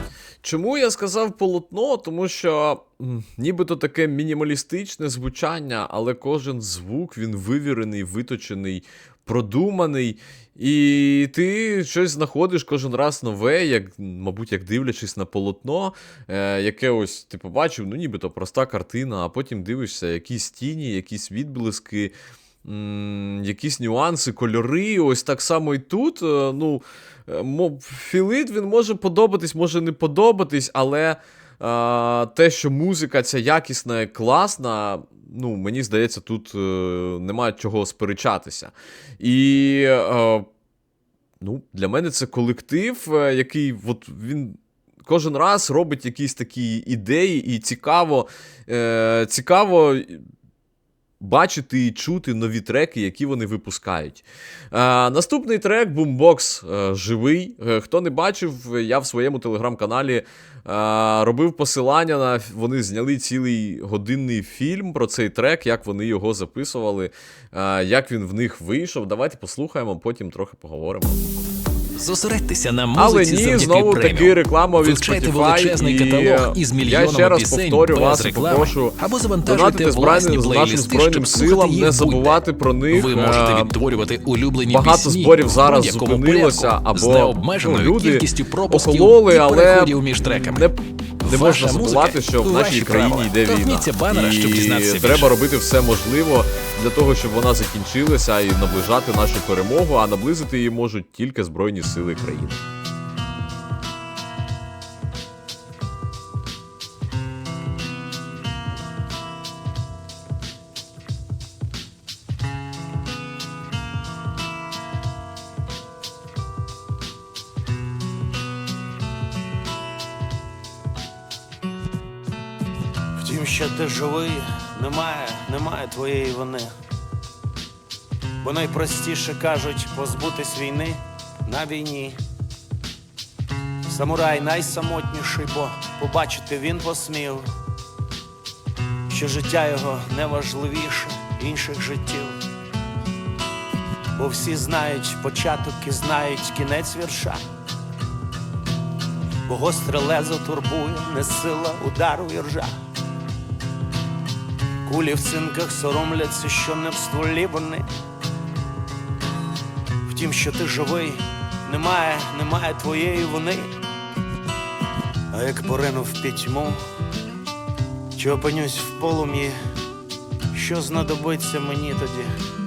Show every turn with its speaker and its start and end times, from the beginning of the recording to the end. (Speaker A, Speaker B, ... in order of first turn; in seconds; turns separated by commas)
Speaker A: 0.4-22.1, Speaker A: 22.6-40.5, Speaker A: 41.4-50.2, Speaker A: 51.2-71.2, Speaker B: 72.0-82.4, Speaker A: 72.9-83.7, Speaker B: 82.9-90.7, Speaker A: 84.7-102.6, Speaker B: 91.2-95.4, Speaker C: 123.2-126.7, Speaker C: 128.4-132.2, Speaker C: 133.9-137.5, Speaker C: 139.1-142.4, Speaker C: 144.2-147.4, Speaker C: 149.5-152.8, Speaker C: 154.8-157.9, Speaker C: 160.1-163.7, Speaker C: 165.3-166.8, Speaker C: 168.1-169.6, Speaker C: 170.5-172.3